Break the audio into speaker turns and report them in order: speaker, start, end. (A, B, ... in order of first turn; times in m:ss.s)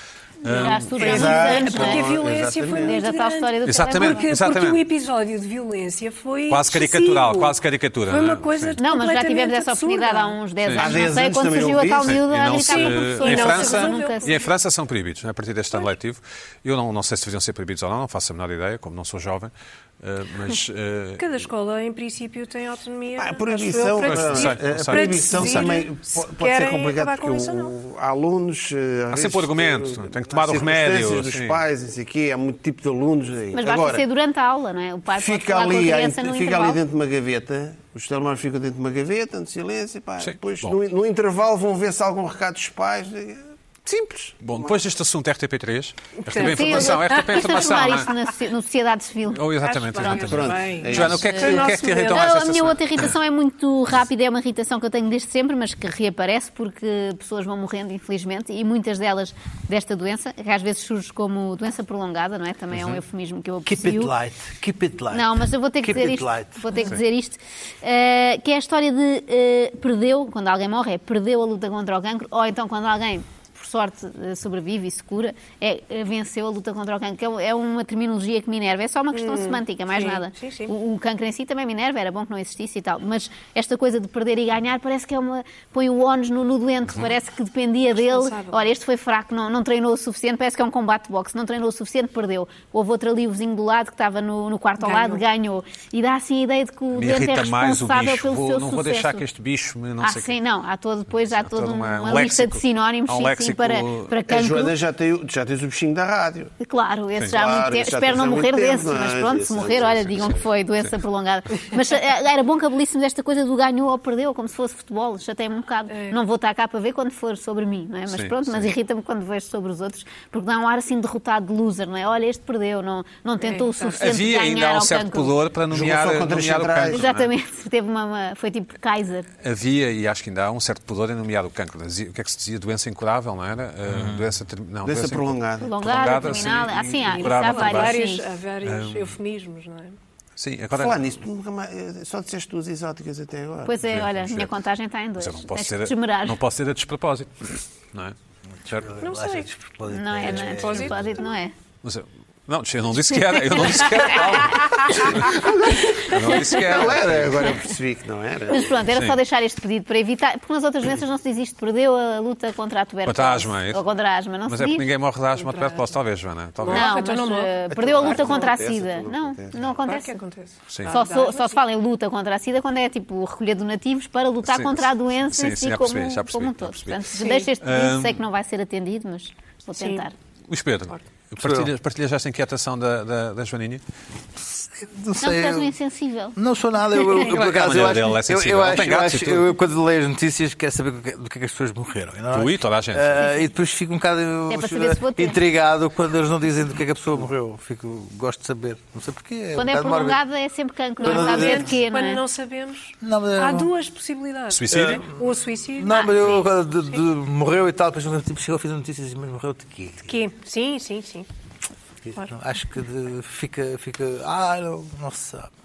0:00.4-0:00.9 A
0:00.4-0:02.1 B
0:00.9-0:07.6 C
0:00.9-0:03.0 D
0:02.8-0:04.2 B
0:03.6-0:04.8 A
0:06.5-0:08.8 A
0:08.1-0:10.4 C
0:08.8-0:14.4 B
0:10.6-0:11.0 A
0:10.7-0:12.2 D
0:12.1-0:21.5 A
0:12.6-0:14.4 C
0:21.2-0:27.7 C
0:23.2-0:34.0 D
0:24.0-0:25.7 A
0:29.1-0:31.6 A
0:33.5-0:36.8 B
0:35.1-0:44.8 D
0:40.2-0:40.7 A
0:44.4-0:48.1 A
0:46.3-0:47.8 C
0:46.4-0:50.2 B
0:49.3-0:53.1 A
0:49.6-0:52.4 C
0:50.3-0:51.8 D
0:51.3-1:04.1 B
1:02.7-1:03.0 A
1:03.7-1:06.8 E
1:05.1-1:39.2 B
1:19.1-1:20.7 C
1:27.9-1:28.6 C
1:34.8-1:35.2 C
1:36.9-1:40.3 A
1:40.0-1:44.7 B
1:41.2-1:44.1 A
1:44.3-1:46.5 D
1:46.6-2:05.4 B
1:47.3-1:50.5 D
1:55.9-1:56.2 C
1:58.1-1:58.7 A
2:03.4-2:04.1 C
2:04.0-2:07.3 A
2:05.7-2:07.0 D
2:06.9-2:09.3 B
2:09.4-2:18.0 A
2:13.9-2:14.3 E
2:14.8-2:15.8 D
2:15.6-2:18.2 B
2:17.1-2:20.0 C
2:18.6-2:19.1 A
2:20.4-2:21.1 A
2:20.8-2:23.8 D
2:23.6-2:26.4 B
2:23.8-2:24.5 A
2:25.2-2:28.2 A
2:28.6-2:31.2 E
2:29.0-2:29.5 C
2:29.9-2:31.5 B
2:30.3-2:31.2 C
2:31.8-2:37.5 A
2:35.1-2:38.8 D
2:38.5-2:44.9 B
2:38.9-2:39.2 A
2:43.1-2:43.8 A
2:44.5-2:47.0 A
2:45.4-2:45.8 C
2:46.6-2:47.5 C
2:46.7-2:50.2 B
2:47.7-2:49.8 D
2:48.2-2:48.4 C
2:49.8-2:51.6 C
2:50.7-2:51.0 A
2:50.9-3:00.1 B
2:54.4-2:57.1 A
2:57.2-2:57.5 C
2:57.6-2:58.2 A
2:59.8-3:00.0 C
3:00.5-3:03.8 A
3:01.4-3:01.7 E
3:04.4-3:05.7 E
3:05.2-3:06.4 B
3:06.4-3:20.2 E
3:07.2-3:09.5 A
3:12.3-3:13.3 A
3:13.2-3:13.5 B
3:14.5-3:15.4 B
3:19.6-3:22.2 B
3:21.0-3:26.1 C
3:21.0-3:21.7 E
3:23.0-3:23.7 E
3:24.5-3:25.0 A
3:24.7-3:25.2 E
3:25.8-3:30.2 E
3:30.0-3:31.3 C
3:32.1-3:35.5 E